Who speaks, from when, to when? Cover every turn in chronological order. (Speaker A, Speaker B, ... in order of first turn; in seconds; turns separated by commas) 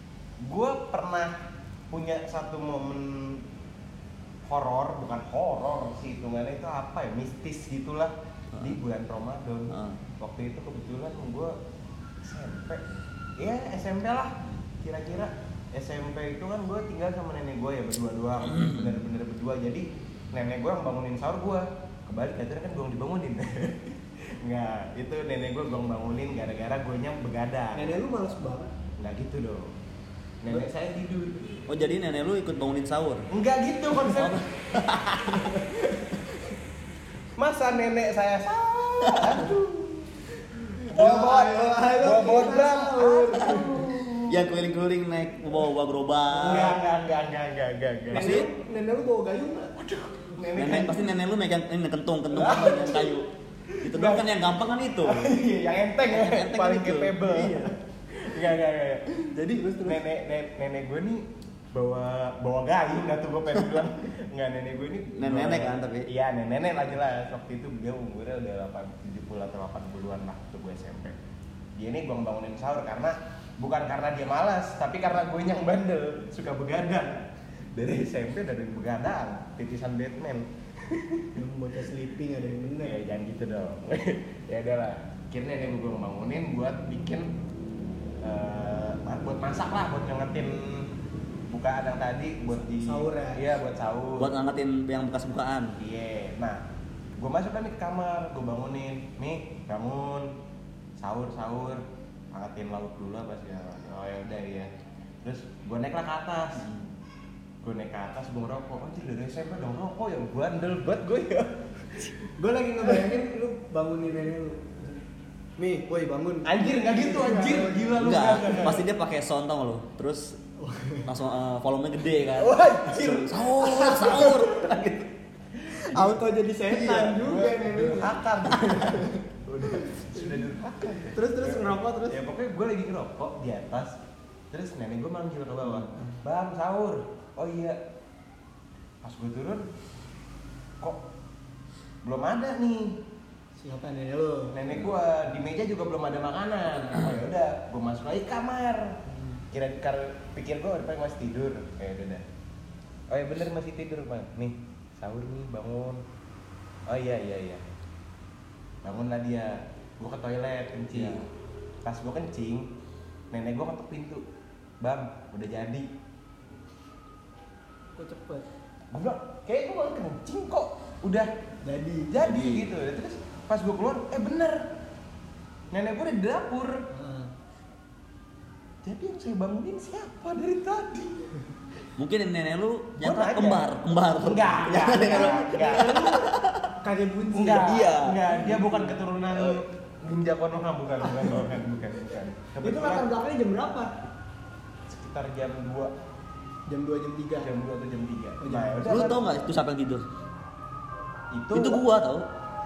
Speaker A: 0.4-3.5, Speaker A: 4.4-11.6, Speaker B: 9.7-10.0, Speaker A: 12.2-12.8, Speaker A: 13.4-28.0, Speaker B: 18.4-19.0, Speaker C: 27.8-28.7, Speaker A: 29.0-29.7, Speaker A: 30.4-31.6, Speaker B: 31.7-33.3, Speaker A: 33.3-34.4, Speaker B: 34.1-35.9, Speaker A: 37.3-40.2, Speaker B: 39.0-39.4, Speaker C: 40.8-43.8, Speaker A: 40.9-44.6, Speaker B: 44.2-46.8, Speaker C: 46.3-46.8, Speaker A: 46.4-48.4, Speaker C: 48.1-49.9, Speaker B: 48.1-48.5, Speaker A: 49.8-51.0, Speaker B: 50.6-53.3, Speaker A: 52.3-53.1, Speaker C: 52.4-52.8, Speaker A: 53.7-54.3, Speaker B: 53.8-55.4, Speaker A: 55.0-59.2, Speaker B: 56.0-57.8, Speaker C: 59.3-60.0, Speaker A: 59.8-71.2, Speaker B: 65.2-66.1, Speaker A: 71.8-81.3, Speaker C: 81.3-83.0, Speaker A: 82.8-87.3, Speaker A: 88.2-90.9, Speaker A: 91.5-94.3, Speaker C: 92.7-93.5, Speaker B: 94.2-95.8, Speaker A: 95.8-96.6, Speaker A: 97.2-100.3, Speaker A: 101.0-104.7, Speaker A: 105.2-106.7, Speaker A: 107.6-112.2, Speaker C: 112.3-115.0, Speaker C: 115.6-118.7, Speaker A: 116.4-118.8, Speaker B: 118.0-120.4, Speaker C: 120.6-121.1, Speaker B: 121.0-125.1, Speaker A: 122.4-123.5, Speaker C: 123.6-124.3, Speaker C: 125.7-129.2, Speaker A: 125.7-126.2, Speaker B: 126.7-127.2, Speaker A: 127.1-134.0, Speaker C: 129.7-130.3, Speaker C: 131.1-132.2, Speaker A: 134.5-137.8, Speaker C: 135.9-136.2, Speaker A: 139.0-139.7, Speaker A: 140.8-141.1, Speaker A: 142.0-143.0, Speaker C: 143.6-144.5, Speaker A: 144.5-149.0, Speaker A: 149.5-152.2, Speaker A: 153.1-156.0, Speaker A: 156.9-157.6, Speaker A: 158.8-161.2, Speaker B: 160.9-161.3, Speaker A: 161.8-162.7, Speaker A: 163.3-164.2, Speaker A: 164.8-165.9, Speaker C: 168.0-168.4, Speaker A: 168.9-171.3, Speaker C: 171.7-172.1, Speaker A: 172.1-174.7, Speaker B: 172.2-172.7, Speaker A: 175.7-176.8, Speaker C: 176.9-177.3, Speaker A: 178.8-181.3, Speaker B: 182.0-186.7, Speaker A: 183.0-186.2, Speaker C: 185.0-186.3, Speaker C: 186.8-187.7, Speaker A: 187.3-193.1, Speaker B: 187.5-188.2, Speaker C: 188.3-188.8, Speaker B: 189.3-189.6, Speaker C: 191.0-191.3, Speaker C: 192.6-193.9, Speaker A: 194.9-195.9, Speaker C: 196.7-197.5, Speaker A: 197.4-199.4, Speaker C: 198.4-199.1, Speaker B: 198.9-200.0, Speaker A: 201.3-201.8, Speaker B: 201.5-202.3